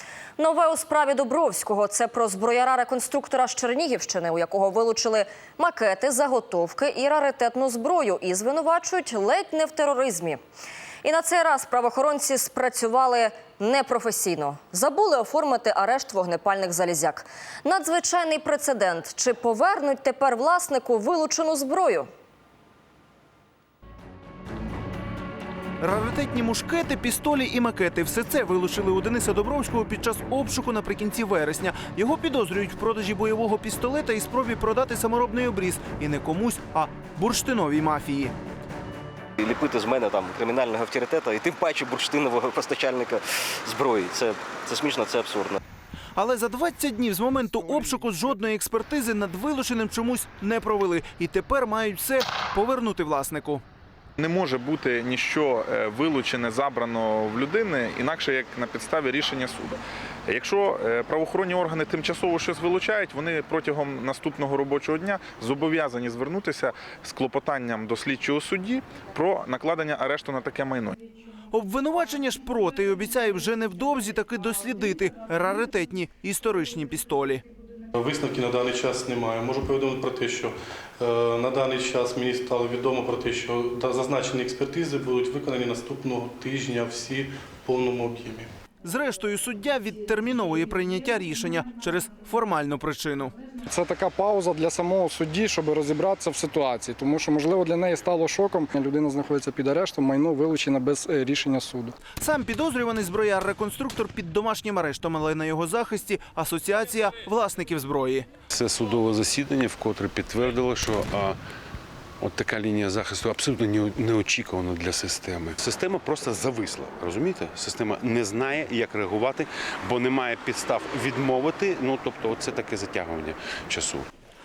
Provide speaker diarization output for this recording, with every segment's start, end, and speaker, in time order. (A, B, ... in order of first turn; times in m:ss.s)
0:00.4-0:10.4 A
0:11.0-0:22.1 A
0:25.8-0:38.3 B
0:39.4-0:45.6 C
0:46.2-0:53.6 B
0:54.2-1:11.0 D
1:11.5-1:17.4 B
1:17.9-1:28.5 E
1:28.8-1:33.3 B
1:33.7-1:42.0 F
1:42.2-1:48.3 B
1:48.5-1:51.4 G
1:52.2-2:04.1 G